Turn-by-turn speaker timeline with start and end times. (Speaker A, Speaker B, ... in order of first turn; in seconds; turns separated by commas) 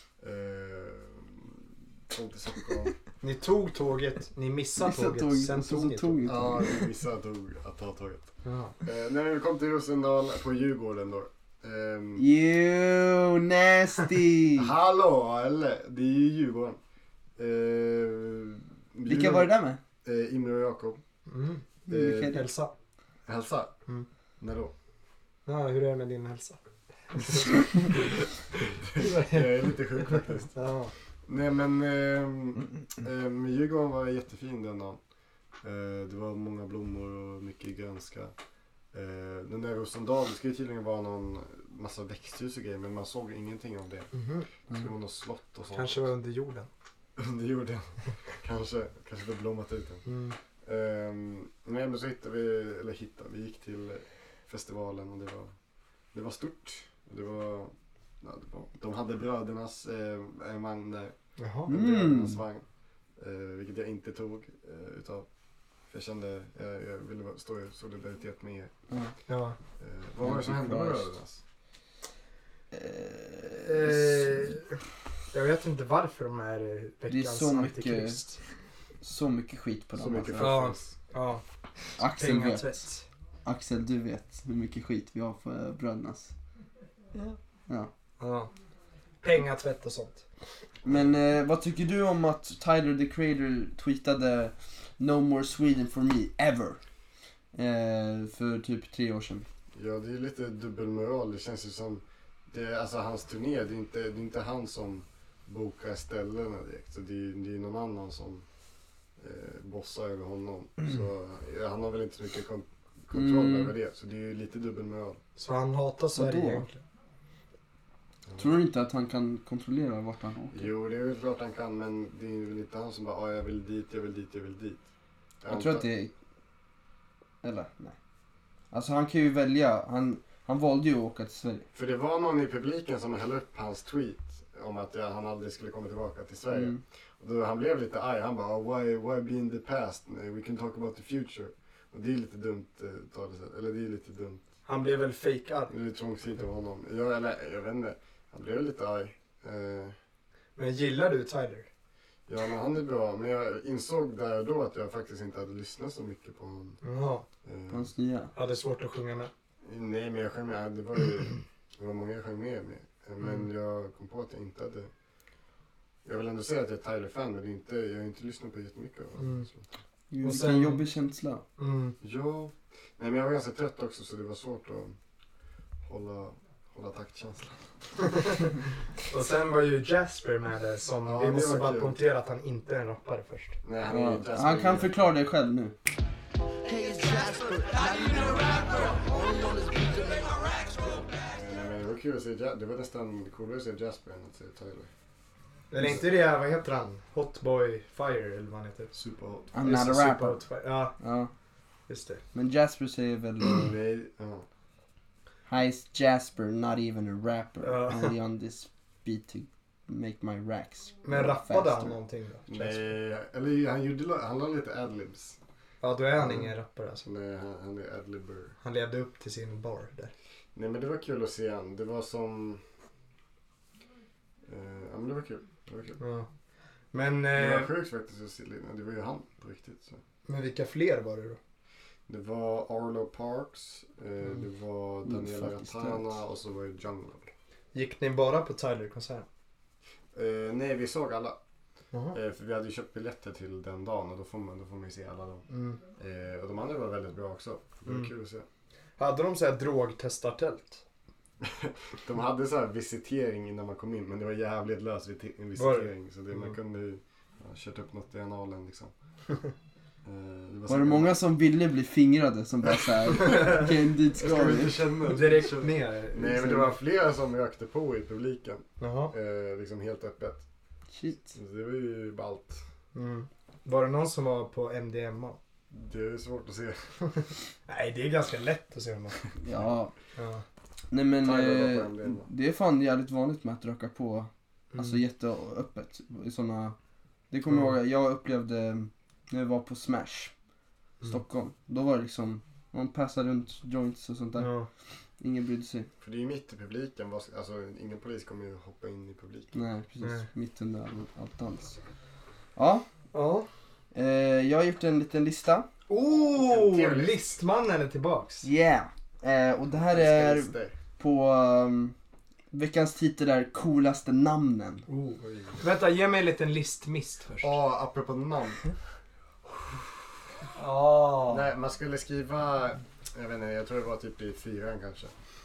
Speaker A: 0.2-3.0, Speaker B: 3.2-6.4, Speaker C: 4.8-6.8, Speaker A: 6.2-12.2, Speaker B: 8.4-8.7, Speaker C: 12.2-14.7, Speaker A: 14.6-16.8, Speaker A: 17.4-19.5, Speaker C: 19.1-19.8, Speaker A: 20.0-21.0, Speaker B: 21.3-22.7, Speaker C: 21.9-22.4, Speaker A: 21.9-22.3, Speaker A: 23.2-23.7, Speaker A: 24.4-24.7, Speaker B: 25.4-26.6, Speaker B: 27.1-28.2, Speaker A: 28.9-30.5, Speaker B: 29.0-29.4, Speaker B: 30.5-30.9, Speaker A: 31.2-35.0, Speaker A: 35.6-38.3, Speaker A: 38.9-44.1, Speaker B: 44.1-44.5, Speaker A: 44.7-46.1, Speaker B: 45.7-46.7, Speaker A: 47.1-50.0, Speaker B: 50.0-50.4, Speaker A: 50.6-55.5, Speaker A: 56.1-61.1, Speaker B: 61.4-61.7, Speaker A: 61.6-62.6, Speaker C: 61.7-62.4, Speaker A: 63.2-65.3, Speaker A: 65.9-68.7, Speaker B: 69.3-69.6, Speaker A: 69.8-71.4, Speaker C: 70.2-71.1, Speaker C: 72.7-74.5, Speaker B: 73.6-74.7, Speaker B: 75.3-78.4, Speaker C: 77.1-78.2, Speaker C: 79.0-80.6, Speaker A: 80.0-80.9, Speaker B: 80.4-81.4, Speaker C: 82.0-82.7, Speaker B: 82.0-83.0, Speaker C: 83.4-86.3, Speaker B: 88.2-88.5, Speaker B: 89.2-90.2, Speaker C: 90.8-96.8, Speaker C: 97.5-99.5, Speaker A: 99.7-108.4, Speaker A: 109.2-115.2, Speaker C: 113.1-113.7, Speaker B: 115.3-116.8, Speaker C: 116.1-116.6, Speaker A: 118.3-118.5, Speaker C: 118.4-120.7, Speaker A: 120.5-124.8, Speaker A: 125.4-125.8, Speaker C: 125.5-126.1, Speaker C: 127.4-128.0, Speaker C: 128.7-131.7, Speaker A: 131.7-144.4, Speaker C: 136.5-136.8, Speaker B: 144.7-145.7, Speaker A: 145.7-149.9, Speaker B: 150.6-151.7, Speaker A: 152.3-156.8, Speaker B: 156.8-157.2, Speaker A: 157.4-157.9, Speaker C: 157.7-158.3, Speaker B: 158.3-159.3, Speaker A: 159.6-164.9, Speaker A: 166.0-169.7, Speaker B: 169.2-169.5, Speaker C: 170.1-171.4, Speaker B: 170.2-170.8, Speaker B: 171.6-171.9, Speaker A: 172.0-175.0, Speaker A: 175.8-177.7, Speaker B: 178.0-178.5, Speaker B: 179.1-183.6, Speaker A: 181.0-182.0, Speaker A: 183.6-185.1, Speaker C: 183.9-185.8, Speaker C: 186.7-190.5, Speaker A: 188.5-189.0, Speaker A: 191.0-194.9, Speaker B: 195.7-198.9, Speaker A: 198.9-199.6, Speaker C: 199.5-200.4, Speaker B: 199.6-200.9, Speaker C: 201.0-201.3, Speaker B: 201.9-202.2, Speaker C: 202.3-203.7, Speaker A: 203.5-204.4, Speaker C: 205.4-212.0, Speaker B: 207.6-208.1, Speaker B: 211.0-212.9, Speaker A: 212.5-215.4, Speaker B: 215.8-217.1, Speaker A: 217.0-218.5, Speaker B: 218.6-220.1, Speaker A: 220.5-222.6, Speaker A: 224.4-226.0, Speaker B: 226.0-226.3, Speaker B: 226.9-227.7, Speaker A: 227.3-230.0, Speaker B: 230.3-231.4, Speaker A: 232.1-237.3, Speaker C: 235.0-236.2, Speaker B: 237.7-239.2, Speaker A: 240.1-241.4, Speaker B: 241.9-242.2, Speaker A: 242.1-248.4, Speaker B: 245.5-245.8, Speaker B: 247.8-248.1, Speaker B: 249.0-250.8, Speaker A: 251.4-258.9, Speaker B: 255.6-256.5, Speaker A: 260.0-261.1, Speaker C: 260.7-264.9, Speaker B: 263.2-263.6, Speaker A: 264.1-270.4, Speaker B: 265.1-266.8, Speaker B: 268.8-269.1, Speaker C: 270.9-271.3, Speaker A: 271.3-272.6, Speaker B: 272.9-275.4, Speaker A: 275.7-276.9, Speaker B: 277.7-279.2, Speaker C: 279.4-279.9, Speaker B: 280.1-280.4, Speaker C: 280.9-286.8, Speaker A: 281.2-282.3, Speaker B: 284.7-285.0, Speaker C: 287.3-290.3, Speaker C: 291.0-294.5, Speaker B: 294.4-294.7, Speaker C: 295.2-295.9, Speaker A: 296.0-299.6, Speaker C: 299.5-301.8, Speaker B: 300.0-300.3, Speaker C: 302.6-302.9, Speaker B: 303.1-303.5, Speaker C: 303.9-305.7, Speaker B: 305.9-308.5, Speaker A: 306.4-307.2, Speaker C: 308.4-311.9, Speaker A: 309.9-310.8, Speaker C: 312.5-314.8, Speaker B: 314.9-317.6, Speaker A: 315.2-315.6, Speaker A: 317.4-318.6, Speaker B: 320.6-321.4, Speaker A: 321.3-325.1